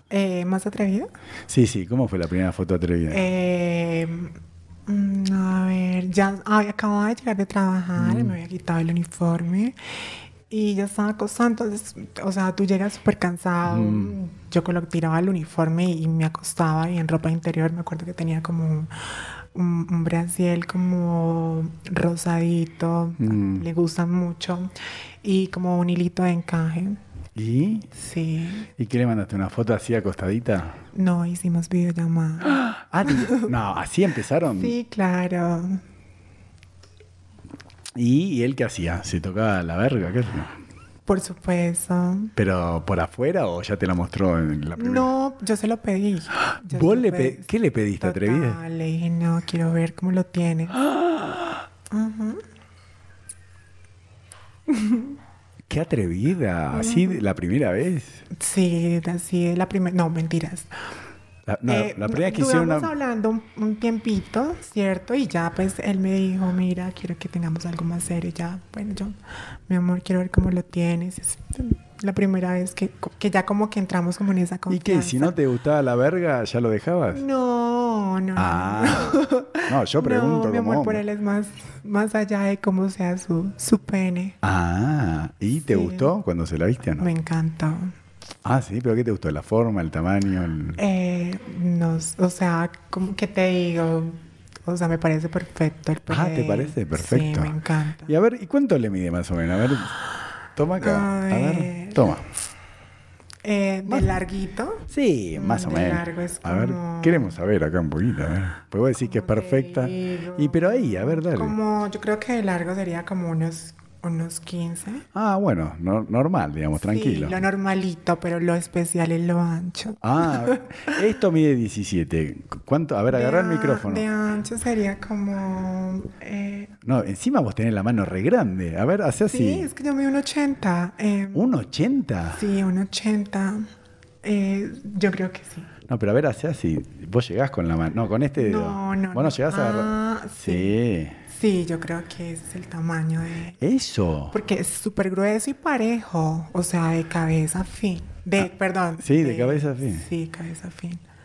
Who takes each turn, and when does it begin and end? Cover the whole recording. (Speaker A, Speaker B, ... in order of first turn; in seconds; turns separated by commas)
Speaker A: 0.1-1.1, Speaker B: 1.5-3.2, Speaker A: 3.1-4.3, Speaker A: 4.9-9.8, Speaker B: 8.0-8.4, Speaker A: 10.5-27.0, Speaker B: 13.7-14.2, Speaker B: 23.2-23.6, Speaker B: 27.4-27.9, Speaker A: 27.9-28.7, Speaker B: 28.8-30.8, Speaker A: 30.9-33.5, Speaker B: 32.8-34.8, Speaker A: 34.5-35.8, Speaker B: 37.9-40.5, Speaker A: 41.1-42.3, Speaker B: 42.4-45.1, Speaker A: 44.8-47.5, Speaker B: 46.7-48.6, Speaker A: 48.0-50.8, Speaker A: 51.9-52.4, Speaker A: 54.7-55.1, Speaker B: 55.7-58.2, Speaker A: 56.7-57.2, Speaker A: 58.3-60.7, Speaker B: 61.5-62.9, Speaker A: 61.6-75.3, Speaker B: 74.7-77.2, Speaker A: 77.1-84.4, Speaker B: 78.3-81.0, Speaker B: 84.4-87.0, Speaker A: 85.7-86.1, Speaker A: 87.0-87.9, Speaker B: 88.4-90.8, Speaker A: 90.8-98.2, Speaker B: 96.1-99.9, Speaker B: 100.5-102.2, Speaker A: 100.8-102.1, Speaker A: 103.4-107.4, Speaker B: 103.8-104.2, Speaker B: 104.9-111.5, Speaker A: 109.0-115.0, Speaker B: 115.1-117.4, Speaker A: 116.7-121.2, Speaker B: 120.0-124.0, Speaker A: 123.1-126.7, Speaker B: 126.8-129.7, Speaker A: 129.3-131.5, Speaker B: 131.3-132.4, Speaker A: 132.3-133.7, Speaker A: 134.2-135.7, Speaker B: 135.9-141.2, Speaker A: 138.4-140.8, Speaker A: 141.3-143.6, Speaker B: 143.6-144.3, Speaker A: 144.3-151.0, Speaker B: 149.0-150.0